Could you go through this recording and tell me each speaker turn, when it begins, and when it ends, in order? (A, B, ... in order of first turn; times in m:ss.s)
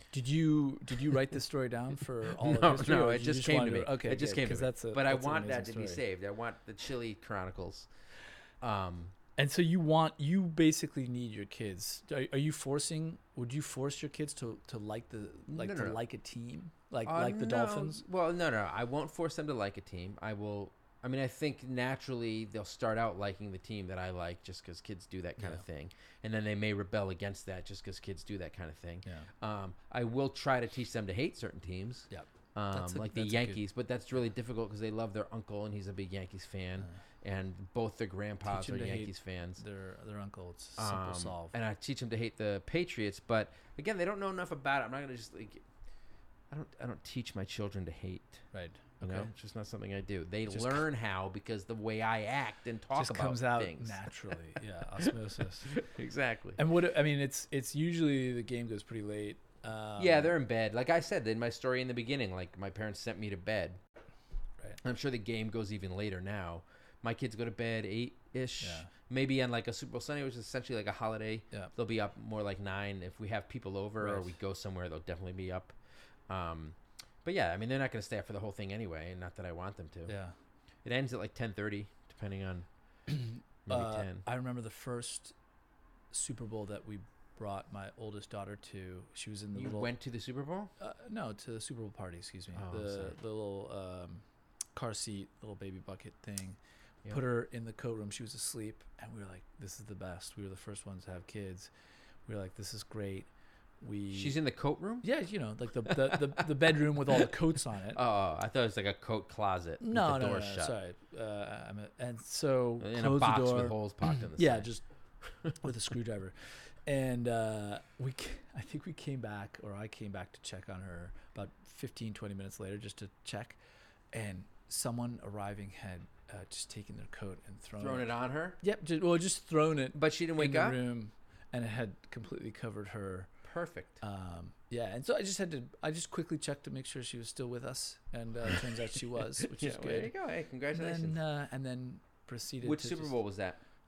0:00.1-0:06.0 A
0:02.4-0:07.9 B
0:08.6-0:09.1 B
0:09.4-0:18.0 A
0:15.5-0:16.0 B
0:17.0-0:39.6 B
0:25.4-0:25.6 A
0:29.0-0:29.3 A
0:32.1-0:33.6 A
0:38.4-0:41.6 A
0:40.8-0:45.6 B
0:46.5-0:48.4 B
0:48.5-0:49.3 A
0:49.0-0:54.0 B
0:50.5-0:50.8 A
0:52.9-0:55.7 A
0:55.6-0:56.6 B
0:56.6-1:00.3 A
1:00.0-1:03.8 B
1:04.8-1:15.8 B
1:08.6-1:08.9 A
1:14.0-1:14.3 A
1:16.3-1:20.1 B
1:20.1-1:20.3 A
1:20.8-1:22.7 B
1:23.1-1:25.3 A
1:23.6-1:24.2 B
1:26.1-1:29.9 A
1:29.5-1:30.7 B
1:30.8-1:41.7 A
1:32.5-1:33.1 B
1:42.2-1:43.3 A
1:43.8-1:44.4 A
1:44.1-1:45.1 B
1:45.0-1:48.0 A
1:47.9-1:50.7 B
1:49.8-1:54.8 A
1:52.8-1:54.7 B
1:55.6-2:03.6 A
2:04.1-2:13.3 A
2:07.8-2:08.6 B
2:09.9-2:10.8 B
2:13.4-2:14.0 B
2:14.0-2:20.1 A
2:19.4-2:21.2 B
2:20.7-2:23.2 A
2:22.6-2:23.6 B